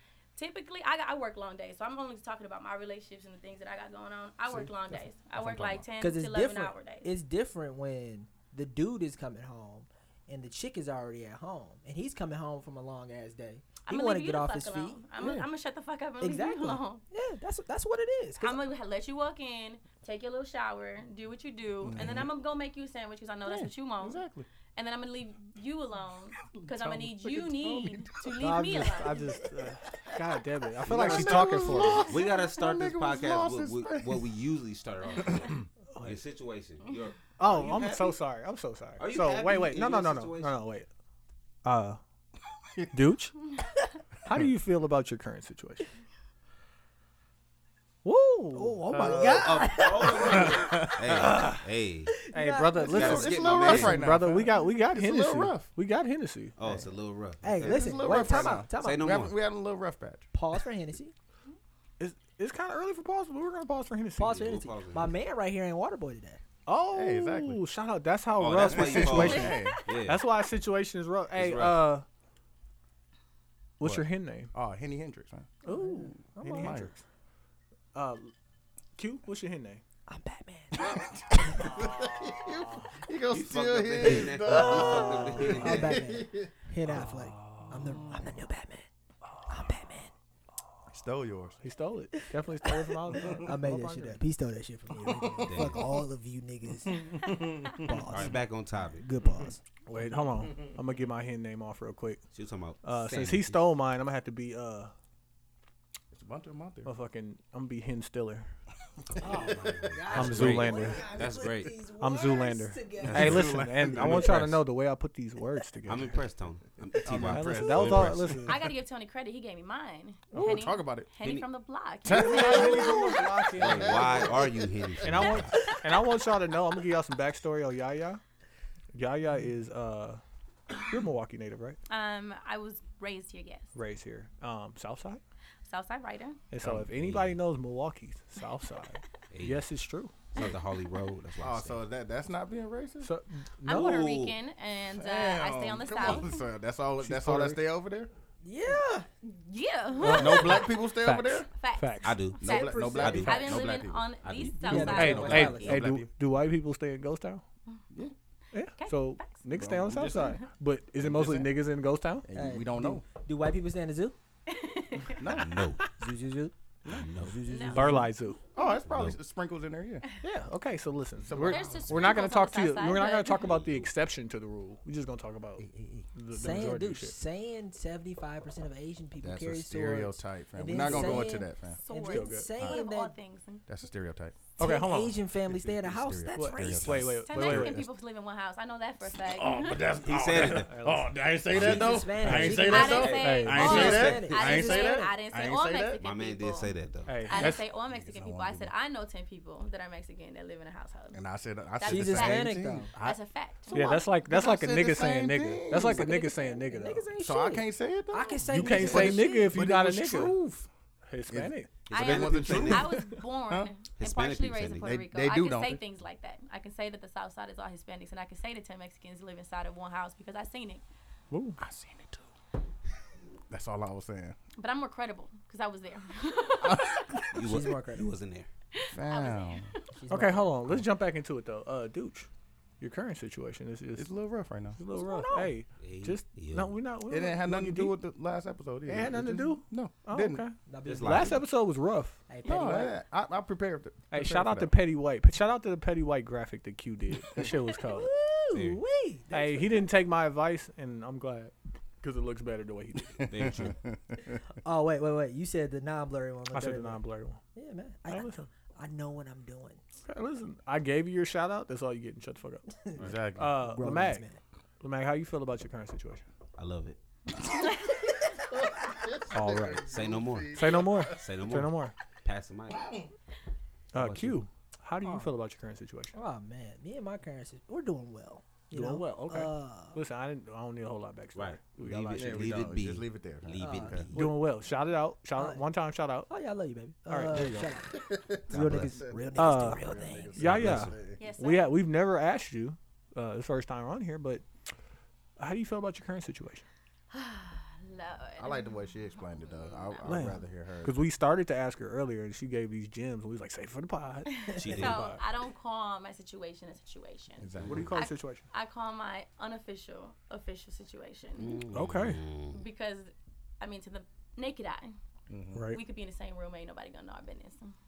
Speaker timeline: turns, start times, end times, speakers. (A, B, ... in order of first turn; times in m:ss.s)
0:00.4-0:07.1 A
0:04.5-0:05.9 B
0:06.0-0:15.0 C
0:13.9-0:17.0 A
0:15.2-0:15.5 B
0:16.2-0:18.6 C
0:18.4-0:24.2 A
0:21.8-0:22.3 B
0:23.4-0:24.5 B
0:24.8-0:29.5 A
0:26.8-0:27.3 D
0:27.6-0:28.3 B
0:28.4-0:32.1 D
0:30.8-0:34.3 B
0:32.0-0:38.2 E
0:35.1-0:35.4 A
0:35.3-0:35.5 B
0:35.9-0:36.2 D
0:37.4-0:40.9 D
0:39.0-0:40.6 E
0:41.6-0:42.0 D
0:42.9-0:43.5 D
0:44.2-0:45.9 D
0:48.0-0:49.5 D
0:48.5-0:51.1 C
0:49.0-0:52.2 E
0:50.4-0:51.3 B
0:51.2-0:51.6 D
0:52.3-0:53.4 C
0:52.3-0:56.6 D
0:52.9-0:54.0 E
0:52.9-0:55.7 B
0:56.6-0:59.4 E
0:56.6-0:56.9 B
0:57.4-0:59.2 C
0:57.6-1:00.3 B
1:00.3-1:01.1 C
1:02.0-1:04.5 D
1:04.2-1:06.4 C
1:04.2-1:05.1 E
1:06.6-1:12.0 D
1:06.9-1:07.6 B
1:08.4-1:10.2 E
1:08.6-1:09.8 B
1:09.1-1:09.8 A
1:11.3-1:11.8 E
1:13.8-1:14.5 D
1:13.8-1:15.6 B
1:15.6-1:16.9 C
1:15.6-1:17.0 D
1:16.5-1:16.9 B
1:17.9-1:18.3 D
1:19.0-1:19.8 D
1:20.1-1:21.6 C
1:20.7-1:27.0 B
1:21.5-1:23.0 D
1:23.3-1:26.0 E
1:24.1-1:28.9 C
1:24.6-1:25.7 D
1:26.8-1:28.3 D
1:29.3-1:29.7 D
1:29.5-1:30.1 C
1:30.9-1:31.6 B
1:31.6-1:34.2 D
1:32.6-1:39.6 C
1:35.0-1:35.7 B
1:35.4-1:35.9 E
1:36.9-1:38.3 B
1:38.1-1:39.0 E
1:39.8-1:42.2 D
1:42.3-1:43.6 E
1:42.8-1:44.9 D
1:46.1-1:46.9 B
1:46.8-1:48.5 D
1:49.2-1:50.6 B
1:49.2-1:53.6 C
1:49.2-1:51.7 E
1:50.1-1:51.2 D
1:51.9-1:56.2 D
1:53.0-1:54.6 E
1:53.1-1:54.6 B
1:55.9-1:58.5 E
1:57.0-1:58.4 B
1:57.2-1:58.6 D
1:58.4-2:03.2 A
2:00.3-2:00.6 D
2:00.3-2:01.1 B
2:01.2-2:01.5 E
2:02.0-2:04.6 B
2:02.1-2:04.4 D
2:03.5-2:05.8 E
2:05.0-2:08.2 D
2:08.9-2:10.2 D
2:10.8-2:11.8 D
2:11.9-2:13.7 A
2:13.7-2:15.2 D
2:15.6-2:16.4 A
2:16.5-2:20.1 D
2:16.9-2:17.4 E
2:19.3-2:19.6 E
2:20.3-2:21.8 E
2:21.4-2:23.1 B
2:23.0-2:24.0 D
2:23.6-2:26.4 A
2:23.6-2:24.4 E
2:24.9-2:28.1 B
2:26.0-2:26.3 E
2:27.0-2:27.6 D
2:28.4-2:29.1 C
2:29.2-2:30.7 A
2:30.0-2:32.2 D
2:30.0-2:31.5 B
2:31.5-2:35.6 A
2:32.0-2:35.6 E
2:32.4-2:34.1 B
2:34.6-2:35.8 C
2:34.7-2:36.1 B
2:34.7-2:37.4 D
2:38.5-2:42.3 D
2:38.8-2:39.4 A
2:39.5-2:40.4 B
2:40.0-2:40.4 A
2:41.0-2:41.5 B
2:42.3-2:43.0 B
2:42.3-2:44.2 C
2:44.5-2:45.4 A
2:45.1-2:45.7 B
2:45.3-2:45.9 E
2:46.0-2:48.1 C
2:46.9-2:47.4 E
2:47.4-2:47.9 A
2:47.7-2:48.4 D
2:48.5-2:50.0 B
2:48.9-2:49.2 E
2:50.2-2:57.2 D
2:51.2-2:52.1 B
2:51.4-2:53.6 A
2:53.4-2:53.9 E
2:55.6-2:56.1 B
2:56.3-3:03.1 C
2:59.2-3:01.8 B
3:00.8-3:01.1 D
3:00.8-3:03.6 A
3:02.1-3:02.5 D
3:03.7-3:04.5 B
3:04.6-3:05.2 D
3:04.6-3:06.8 C
3:05.3-3:07.8 B
3:06.3-3:07.8 D
3:06.6-3:07.1 E
3:07.2-3:09.8 A
3:09.2-3:16.0 B
3:10.0-3:10.7 E
3:10.4-3:11.1 D
3:11.5-3:14.4 E
3:11.5-3:15.1 C
3:12.3-3:13.9 D
3:12.6-3:21.2 A
3:16.0-3:17.5 E
3:17.0-3:17.6 D
3:17.3-3:18.7 B
3:21.1-3:26.3 B
3:21.7-3:24.0 A
3:21.8-3:22.9 C
3:23.7-3:27.1 D
3:25.7-3:29.6 C
3:27.2-3:30.7 B
3:28.5-3:30.4 D
3:31.1-3:31.7 D
3:31.3-3:33.7 B
3:31.9-3:32.9 E
3:31.9-3:40.8 A
3:34.0-3:34.9 E
3:34.8-3:35.8 B
3:41.3-3:41.6 D
3:41.6-3:42.3 B
3:43.5-3:44.4 B
3:44.6-3:47.2 A
3:46.6-3:47.2 B
3:47.3-3:48.5 E
3:47.4-3:48.1 C
3:48.7-3:49.8 A
3:48.9-3:49.7 B
3:49.9-3:50.5 C
3:50.1-3:52.3 D
3:52.8-3:54.1 D
3:54.0-3:54.8 B
3:54.8-3:57.9 D
3:54.9-3:55.5 C
3:55.8-3:56.8 E
3:57.1-4:00.4 B
3:58.8-4:02.2 D
4:00.7-4:01.4 C
4:00.8-4:01.4 E
4:02.3-4:03.0 C
4:02.4-4:04.7 B
4:04.1-4:08.1 D
4:07.8-4:09.9 C
4:08.5-4:08.8 E
4:09.3-4:13.5 D
4:13.2-4:14.4 B
4:13.3-4:13.8 E
4:14.6-4:17.0 C
4:16.5-4:17.4 D
4:17.5-4:19.8 C
4:18.1-4:18.5 D
4:20.0-4:22.7 D
4:22.9-4:23.2 E
4:23.0-4:23.6 B
4:23.3-4:24.2 D
4:23.6-4:24.4 C
4:24.8-4:26.2 D
4:26.6-4:27.0 E
4:27.5-4:27.9 A
4:28.5-4:31.2 B
4:29.3-4:29.9 D
4:29.9-4:32.9 E
4:30.5-4:31.9 D
4:33.9-4:36.2 D
4:33.9-4:34.4 E
4:35.0-4:35.3 C
4:36.1-4:40.0 C
4:38.7-4:42.6 D
4:41.3-4:44.3 E
4:42.1-4:44.1 B
4:43.6-4:44.1 C
4:44.1-4:46.3 D
4:45.4-4:45.6 C
4:46.3-4:50.5 C
4:47.1-4:47.5 D
4:47.3-4:51.2 B
4:48.5-4:49.0 E
4:49.3-4:49.8 D
4:50.4-4:54.4 D
4:50.4-4:50.9 E
4:51.2-4:51.7 A
4:55.4-4:56.7 D
4:57.1-4:58.8 A
4:58.4-5:01.0 B
4:59.4-5:00.3 A
5:00.0-5:05.2 D
5:04.3-5:11.6 A
5:04.6-5:05.1 E
5:07.4-5:08.0 B
5:07.6-5:07.8 E
5:07.6-5:08.4 D
5:11.4-5:12.6 E
5:11.7-5:12.2 D
5:12.5-5:14.9 A
5:15.3-5:15.6 B
5:15.5-5:15.8 D
5:15.7-5:17.7 A